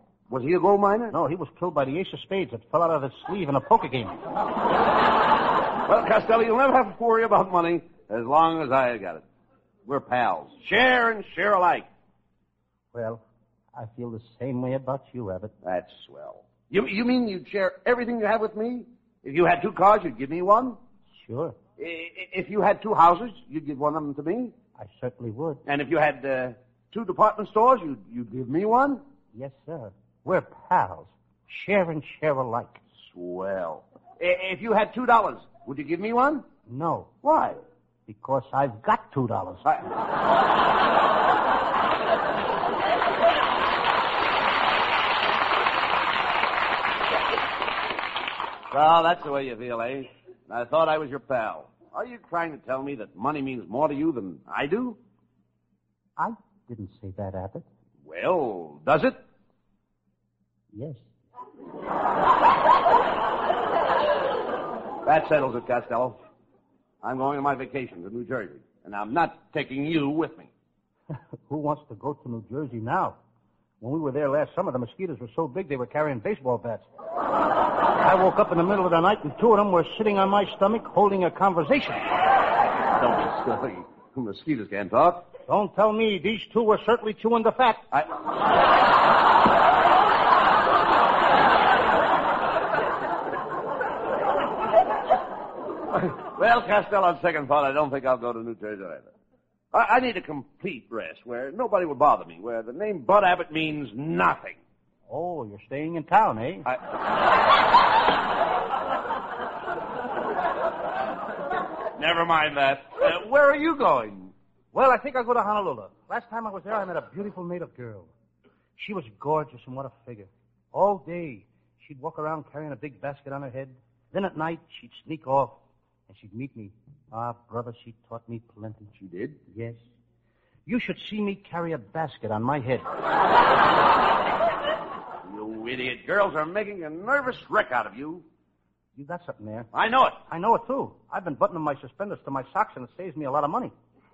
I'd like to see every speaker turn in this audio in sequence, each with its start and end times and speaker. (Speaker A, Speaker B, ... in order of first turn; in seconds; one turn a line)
Speaker A: 0.3-1.1
Speaker B: 1.1-4.2
Speaker A: 5.8-9.2
Speaker A: 9.8-11.9
Speaker B: 12.9-13.2
Speaker B: 13.7-15.5
Speaker A: 15.6-20.8
Speaker B: 21.2-21.6
Speaker A: 21.8-24.5
Speaker B: 24.8-25.6
Speaker A: 25.6-29.0
Speaker B: 29.3-32.8
Speaker A: 33.0-36.5
Speaker B: 36.7-37.1
Speaker A: 37.2-37.6
Speaker B: 38.1-39.6
Speaker A: 48.7-55.0
Speaker B: 56.2-57.6
Speaker A: 58.0-59.2
Speaker B: 60.7-61.0
Speaker A: 65.0-66.2
Speaker A: 67.0-70.5
Speaker B: 71.5-73.2
Speaker B: 73.8-76.8
Speaker B: 78.0-82.0
Speaker A: 82.9-85.3
Speaker B: 85.5-87.8
Speaker A: 95.9-99.1
Speaker A: 99.7-104.6
Speaker B: 105.1-106.7
Speaker A: 112.0-114.3
Speaker B: 114.7-118.1
Speaker B: 118.8-125.6
Speaker B: 126.1-128.9
Speaker A: 128.9-129.4
Speaker B: 129.5-129.8
Speaker B: 130.7-132.8
Speaker A: 135.2-138.2
Speaker B: 138.9-139.7
Speaker A: 139.7-140.2
Speaker B: 140.3-143.7